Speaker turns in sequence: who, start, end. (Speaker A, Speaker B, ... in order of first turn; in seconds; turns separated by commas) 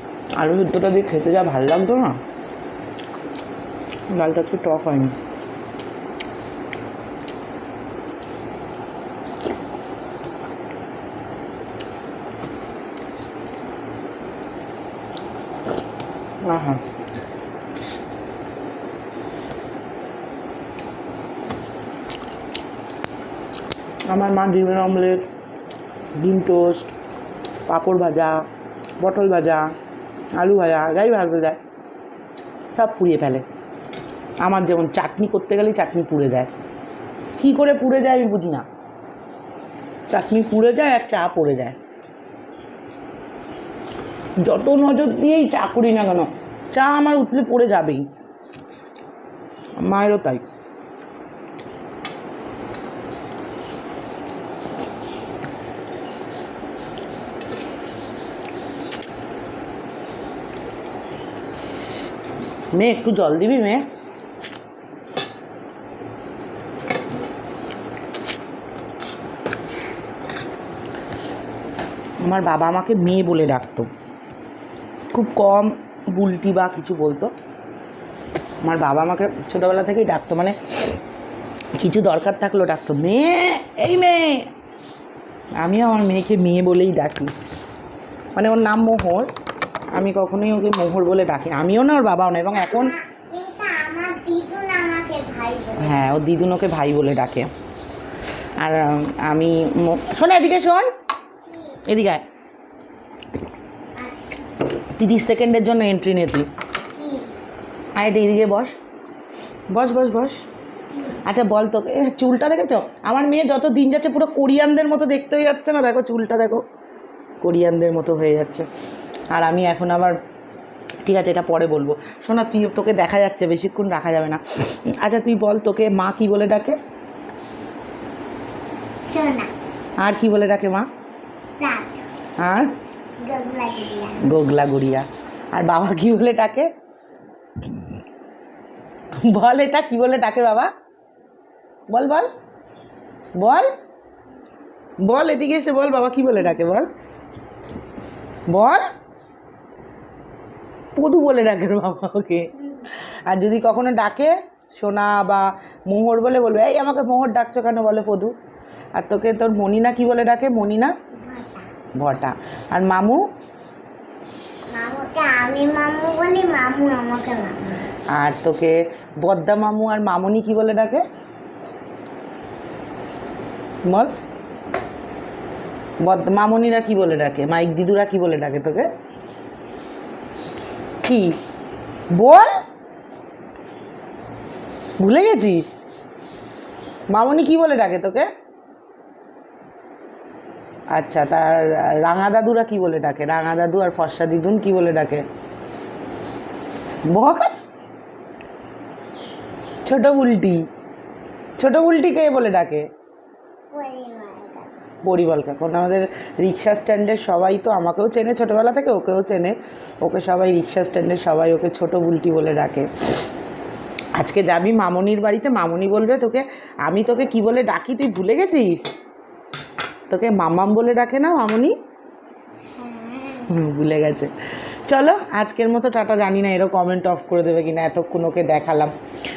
Speaker A: 0.3-2.2, Speaker A: 4.1-5.2, Speaker A: 16.4-16.8, Speaker A: 24.1-25.2, Speaker A: 26.2-26.9, Speaker A: 27.7-28.4, Speaker A: 29.0-29.7, Speaker A: 30.4-31.6, Speaker A: 32.7-33.4, Speaker A: 34.4-36.5, Speaker A: 37.4-38.6, Speaker A: 40.1-41.8, Speaker A: 44.4-48.1, Speaker A: 49.8-50.4, Speaker A: 62.7-63.8, Speaker A: 72.2-73.9, Speaker A: 75.1-77.3, Speaker A: 78.6-81.0, Speaker A: 81.8-84.5, Speaker A: 85.6-87.3, Speaker A: 88.3-89.3, Speaker A: 89.9-93.0, Speaker B: 92.7-96.0, Speaker A: 95.8-97.5, Speaker A: 98.6-100.9, Speaker A: 101.8-102.2, Speaker A: 104.7-106.5, Speaker B: 106.8-107.3, Speaker A: 108.0-108.8, Speaker A: 109.7-110.4, Speaker A: 111.1-116.6, Speaker A: 117.4-118.7, Speaker A: 119.3-120.2, Speaker A: 121.0-126.8, Speaker B: 129.0-129.5, Speaker A: 130.0-130.9, Speaker B: 131.6-132.1, Speaker A: 132.4-132.7, Speaker B: 133.2-134.2, Speaker A: 134.2-136.7, Speaker A: 139.2-140.7, Speaker A: 141.9-142.3, Speaker A: 143.4-143.7, Speaker A: 145.0-146.9, Speaker A: 148.5-148.8, Speaker A: 150.9-158.3, Speaker A: 158.9-160.9, Speaker B: 161.2-161.7, Speaker A: 161.9-163.2, Speaker B: 164.7-167.6, Speaker A: 168.1-171.0, Speaker A: 173.8-174.1, Speaker A: 176.0-178.9, Speaker A: 181.0-181.4, Speaker A: 182.1-182.5, Speaker A: 185.0-185.7, Speaker A: 187.1-188.3, Speaker A: 190.9-195.2, Speaker A: 197.1-197.5, Speaker A: 199.8-200.7, Speaker A: 201.6-202.9, Speaker B: 203.7-204.7, Speaker A: 205.0-212.9, Speaker A: 214.2-218.9, Speaker A: 220.1-221.7, Speaker B: 222.8-223.5, Speaker A: 223.4-224.3, Speaker A: 224.8-228.9